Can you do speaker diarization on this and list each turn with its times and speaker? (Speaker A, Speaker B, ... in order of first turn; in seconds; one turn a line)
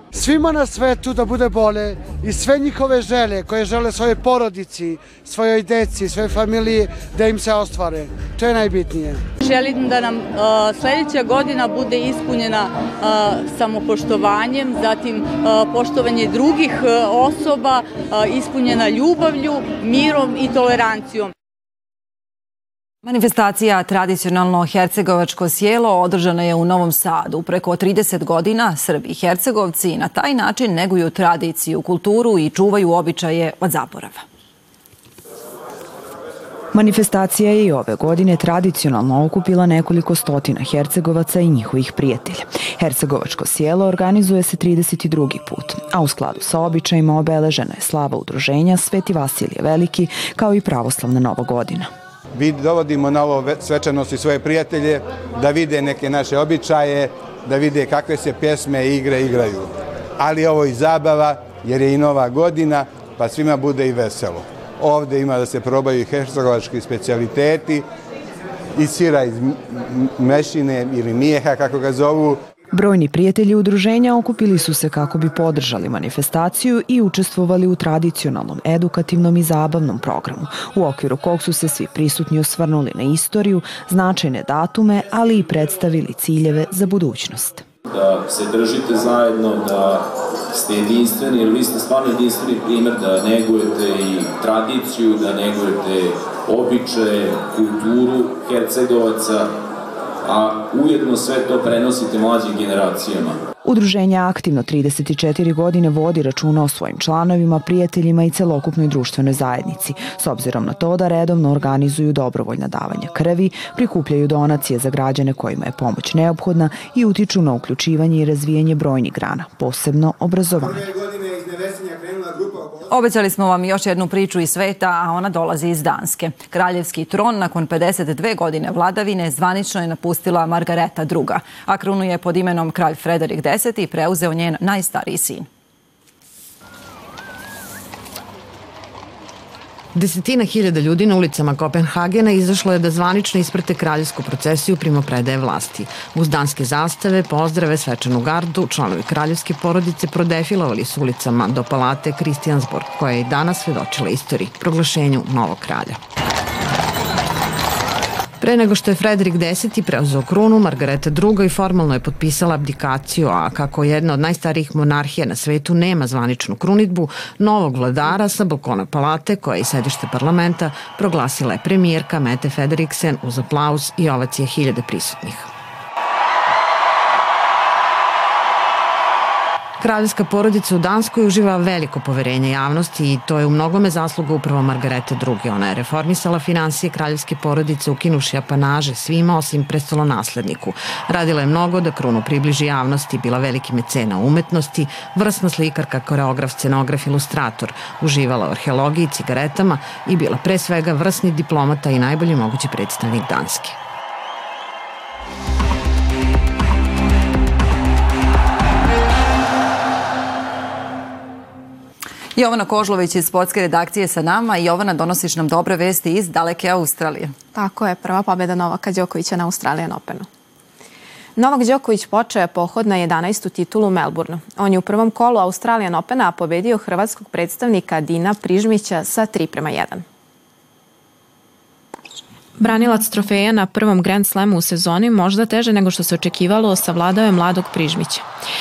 Speaker A: 0.1-9.2
Speaker B: 9.4-21.3
Speaker C: 23.0-34.2
Speaker D: 36.7-51.9
Speaker E: 52.4-59.6
Speaker E: 60.2-67.7
Speaker E: 68.8-69.3
Speaker E: 70.3-72.3
Speaker D: 72.7-87.6
Speaker F: 87.9-99.5
Speaker F: 100.2-103.4
Speaker D: 103.6-120.9
Speaker C: 122.9-135.5
Speaker G: 139.9-156.0
Speaker G: 158.4-175.5
Speaker G: 179.8-203.8
Speaker C: 212.3-217.3
Speaker H: 217.5-220.3
Speaker H: 221.3-230.0
Speaker H: 232.6-238.2